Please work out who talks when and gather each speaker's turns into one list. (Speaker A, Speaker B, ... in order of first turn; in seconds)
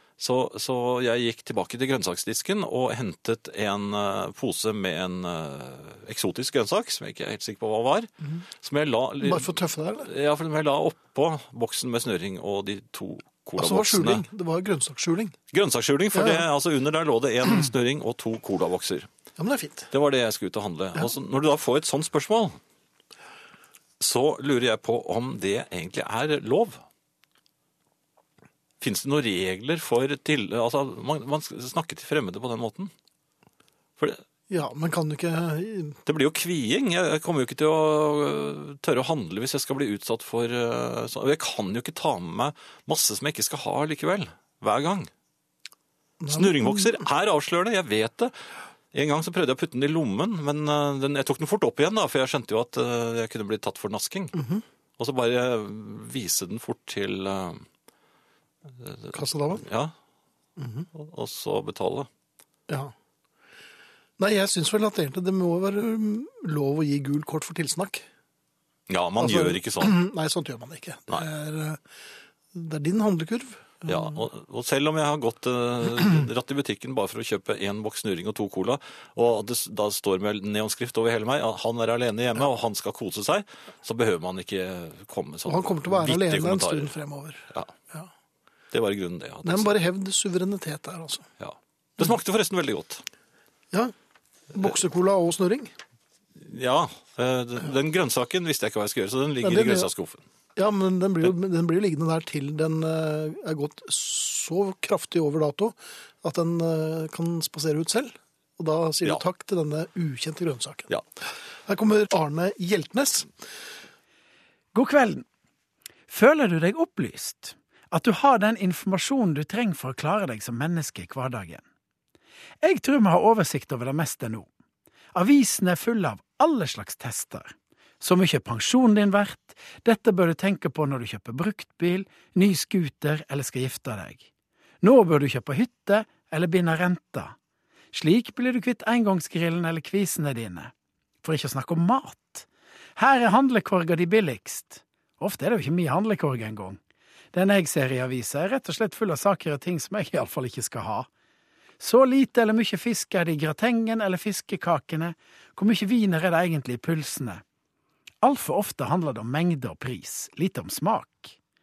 Speaker A: 0.2-14.2, 15.5-19.1, 19.9-22.6, 24.0-26.8, 28.8-32.9, 36.1-45.1, 46.3-48.3, 48.9-54.4, 55.0-57.7, 58.8-59.9, 60.9-62.1, 68.9-70.0, 73.9-87.0, 88.7-89.7, 91.4-93.0, 96.4-100.2
Speaker B: 9.2-10.1, 13.6-15.4, 16.1-16.4, 19.4-19.9, 34.5-36.0, 46.2-47.0, 54.3-54.6, 59.1-59.6, 60.6-60.9, 64.2-68.0, 69.2-71.8, 72.5-74.2, 85.5-88.1, 89.4-91.3, 94.5-95.7, 99.4-99.9, 100.6-110.9, 111.7-113.3
Speaker C: 114.7-115.2, 116.1-121.6, 122.6-124.5, 125.1-134.2, 134.8-137.3, 137.9-140.7, 141.2-146.8, 147.3-151.1, 151.8-157.4, 158.2-161.4